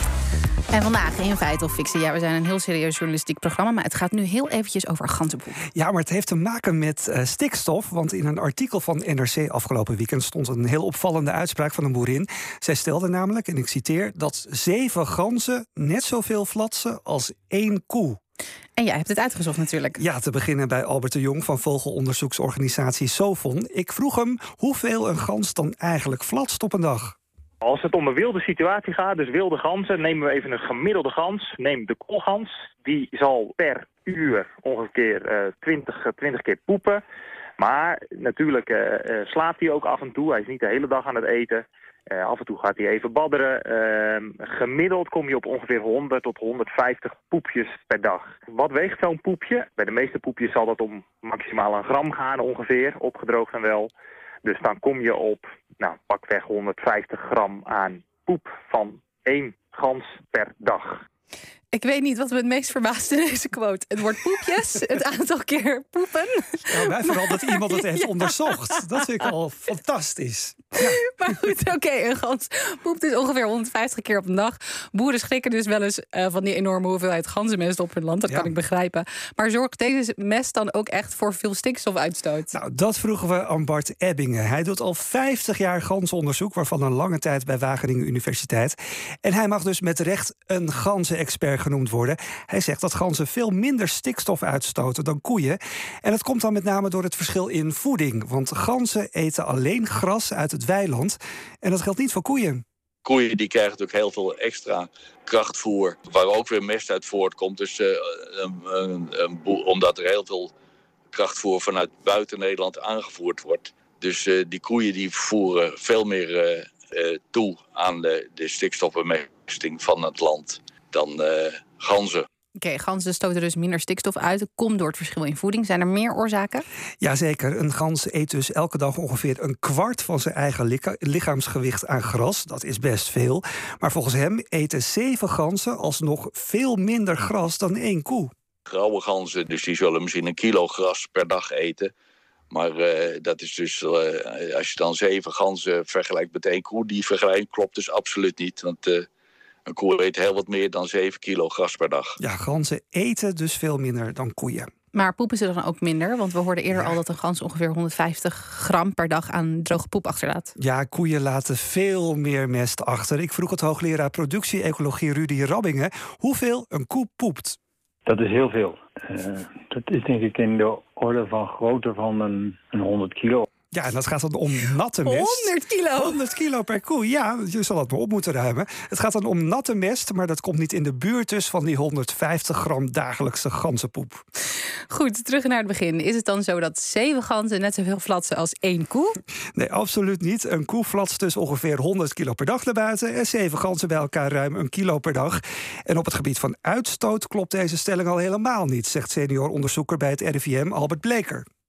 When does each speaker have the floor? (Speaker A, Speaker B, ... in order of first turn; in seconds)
Speaker A: 0.7-5.6, 18.8-20.0, 61.7-68.8, 70.8-82.5, 122.6-126.7, 154.9-160.5, 175.1-176.2, 184.9-189.2
Speaker B: 5.8-18.2, 20.0-27.2, 66.7-71.0, 82.5-102.6, 127.0-138.3, 152.2-154.7, 160.6-167.6, 173.7-184.2, 189.6-201.5
Speaker C: 27.6-37.0, 37.6-53.9, 54.4-61.0
Speaker D: 103.0-110.5, 111.1-122.3, 138.7-141.9, 142.5-149.1, 149.7-152.2
Speaker E: 168.1-173.5